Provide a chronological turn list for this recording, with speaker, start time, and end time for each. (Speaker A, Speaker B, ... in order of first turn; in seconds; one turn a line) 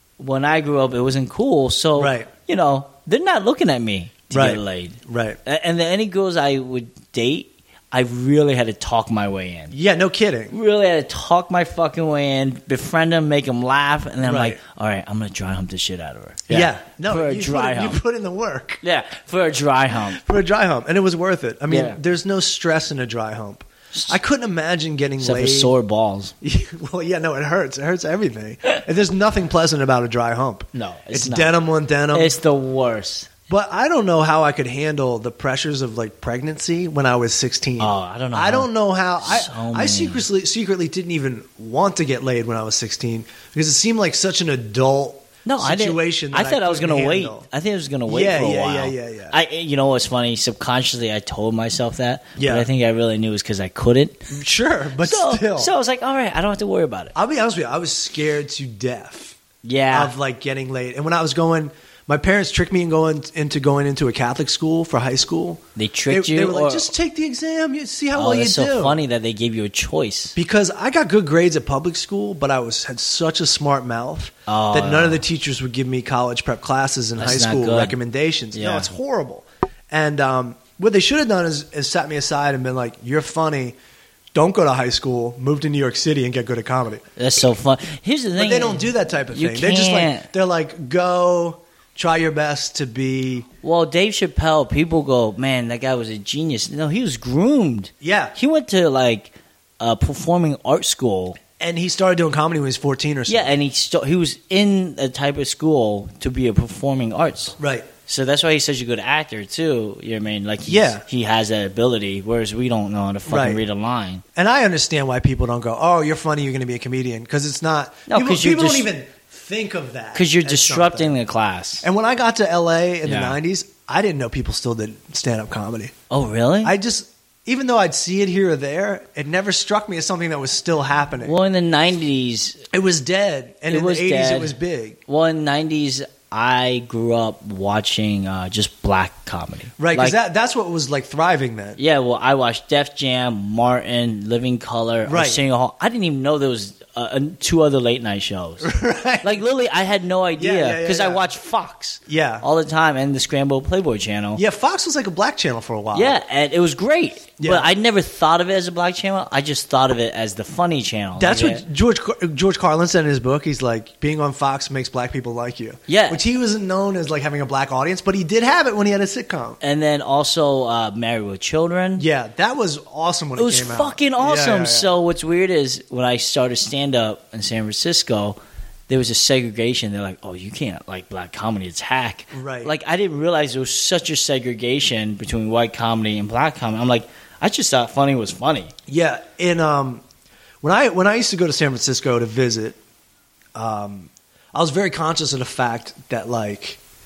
Speaker A: 0.2-9.7
Speaker B: 2.0-2.3
Speaker B: 4.3-5.4
Speaker B: 9.7-10.5
Speaker A: 10.5-18.0
Speaker B: 14.2-14.6
Speaker B: 16.5-18.8
Speaker A: 18.8-20.2
Speaker B: 20.1-25.7
Speaker A: 21.7-22.0
Speaker A: 25.2-26.3
Speaker B: 26.4-32.4
Speaker A: 30.7-31.5
Speaker A: 32.1-33.3
Speaker B: 33.5-47.5
Speaker A: 37.8-38.7
Speaker A: 39.2-40.3
Speaker A: 45.5-54.3
Speaker B: 48.1-49.4
Speaker B: 52.4-52.7
Speaker B: 54.3-55.7
Speaker A: 55.0-57.1
Speaker B: 57.1-59.4
Speaker A: 59.6-60.1
Speaker B: 59.9-69.0
Speaker A: 65.8-66.9
Speaker A: 68.1-70.4
Speaker B: 70.4-83.8
Speaker A: 74.5-75.2
Speaker A: 77.2-78.0
Speaker A: 78.5-78.9
Speaker B: 84.3-87.0
Speaker A: 87.2-90.3
Speaker B: 88.4-93.5
Speaker A: 93.6-101.4
Speaker B: 98.0-98.3
Speaker B: 101.6-103.5
Speaker A: 103.3-107.6
Speaker B: 107.6-107.9
Speaker A: 108.1-114.2
Speaker B: 110.7-111.0
Speaker B: 113.3-113.6
Speaker B: 114.3-121.1
Speaker A: 118.1-118.9
Speaker A: 120.1-121.9
Speaker B: 121.8-125.9
Speaker A: 123.0-123.4
Speaker A: 126.1-126.8
Speaker B: 126.6-131.3
Speaker A: 131.2-132.6
Speaker B: 132.7-135.0
Speaker A: 133.7-134.6
Speaker A: 135.1-140.2
Speaker B: 139.8-141.8
Speaker A: 141.8-148.7
Speaker B: 145.1-145.4
Speaker B: 148.6-149.4
Speaker A: 149.2-154.4
Speaker B: 150.4-151.2
Speaker B: 152.1-152.4
Speaker B: 154.4-156.2
Speaker A: 155.9-161.6
Speaker B: 157.4-157.7
Speaker B: 161.2-169.6
Speaker A: 165.9-166.2
Speaker A: 169.6-172.1
Speaker B: 172.0-174.9
Speaker A: 173.4-178.4
Speaker A: 178.9-188.7
Speaker B: 182.3-182.7
Speaker B: 188.9-190.0
Speaker B: 190.6-192.8
Speaker B: 193.6-196.8